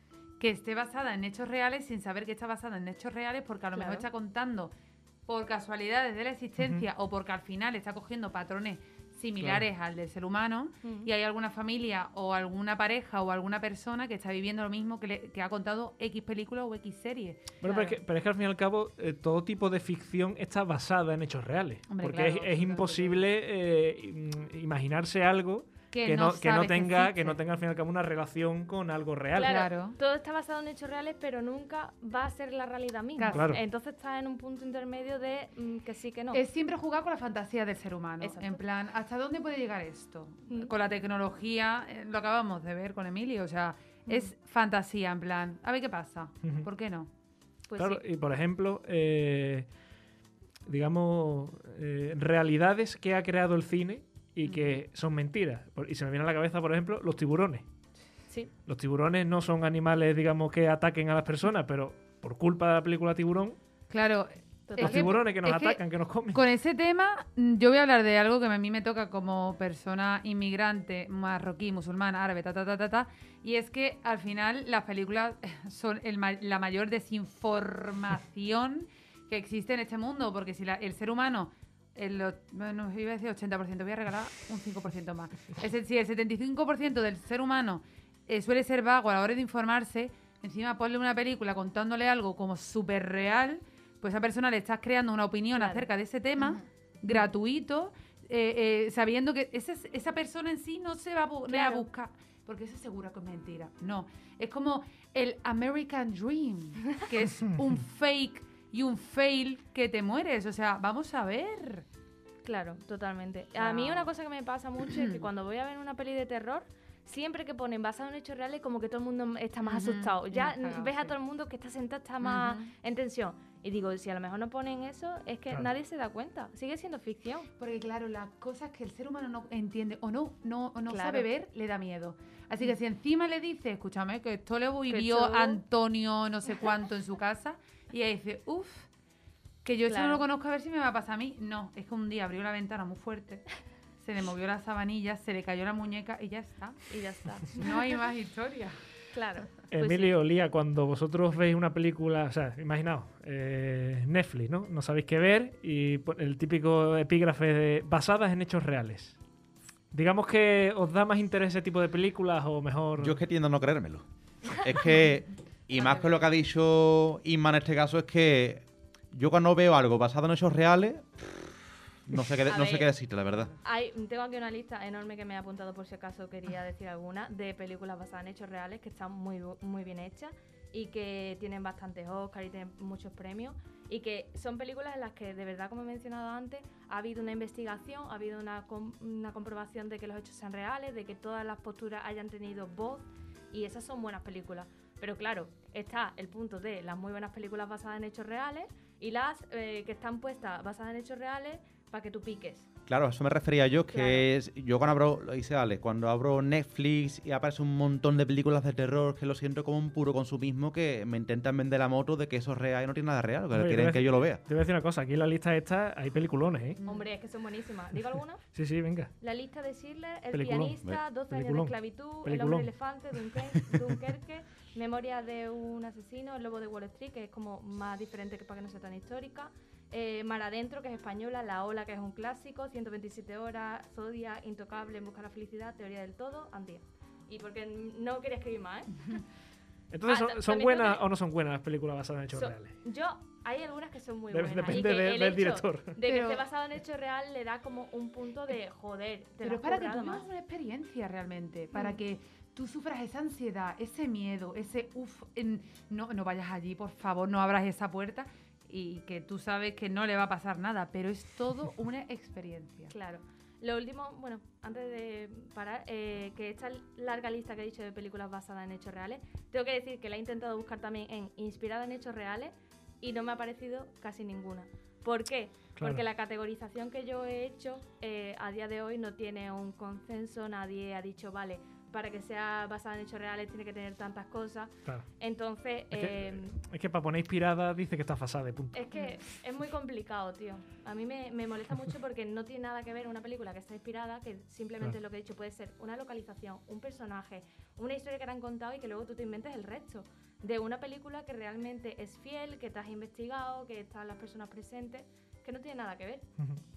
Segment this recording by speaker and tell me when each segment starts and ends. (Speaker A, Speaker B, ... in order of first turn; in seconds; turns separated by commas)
Speaker A: 0.4-4.7, Speaker B: 3.7-4.0, Speaker A: 5.3-18.0, Speaker C: 6.6-6.9, Speaker C: 9.4-9.7, Speaker B: 10.8-11.1, Speaker C: 17.6-29.5, Speaker A: 21.9-23.2, Speaker A: 25.9-27.4, Speaker B: 29.4-36.4, Speaker A: 29.4-30.0, Speaker A: 33.2-33.6, Speaker C: 33.3-33.6, Speaker A: 36.3-47.1, Speaker B: 38.2-38.6, Speaker B: 40.5-40.7, Speaker B: 44.1-44.3, Speaker C: 46.4-46.7, Speaker B: 47.7-48.0, Speaker C: 47.8-49.7, Speaker C: 50.6-57.6, Speaker A: 54.4-54.7, Speaker C: 58.7-63.6, Speaker A: 63.9-65.8, Speaker B: 64.7-65.1, Speaker C: 64.8-66.4, Speaker A: 66.3-111.8, Speaker B: 95.5-95.9, Speaker B: 101.5-101.8, Speaker B: 112.4-127.5, Speaker A: 113.5-114.1, Speaker A: 114.8-115.2, Speaker A: 119.6-121.1, Speaker A: 122.2-122.7, Speaker A: 127.6-138.9, Speaker B: 130.9-131.3, Speaker B: 134.9-135.6, Speaker A: 139.6-143.4, Speaker B: 139.9-140.2, Speaker A: 144.0-146.8, Speaker B: 146.9-147.8, Speaker A: 147.5-148.8, Speaker B: 149.1-150.1, Speaker C: 149.7-159.2, Speaker C: 159.9-163.2, Speaker D: 163.0-171.5, Speaker A: 165.8-166.1, Speaker D: 172.1-173.5, Speaker B: 172.4-172.9, Speaker B: 173.6-202.7, Speaker D: 202.9-214.4, Speaker B: 203.9-204.3, Speaker C: 213.5-216.8, Speaker A: 216.8-217.1, Speaker B: 216.8-218.4, Speaker C: 218.5-219.1, Speaker B: 219.2-239.1, Speaker C: 220.3-222.7, Speaker C: 239.9-242.7, Speaker B: 240.1-241.0, Speaker B: 242.3-250.3, Speaker C: 244.3-245.9, Speaker A: 246.0-246.4, Speaker A: 249.4-262.9, Speaker B: 262.9-286.6, Speaker C: 275.8-276.0, Speaker C: 285.9-288.8, Speaker B: 288.7-306.2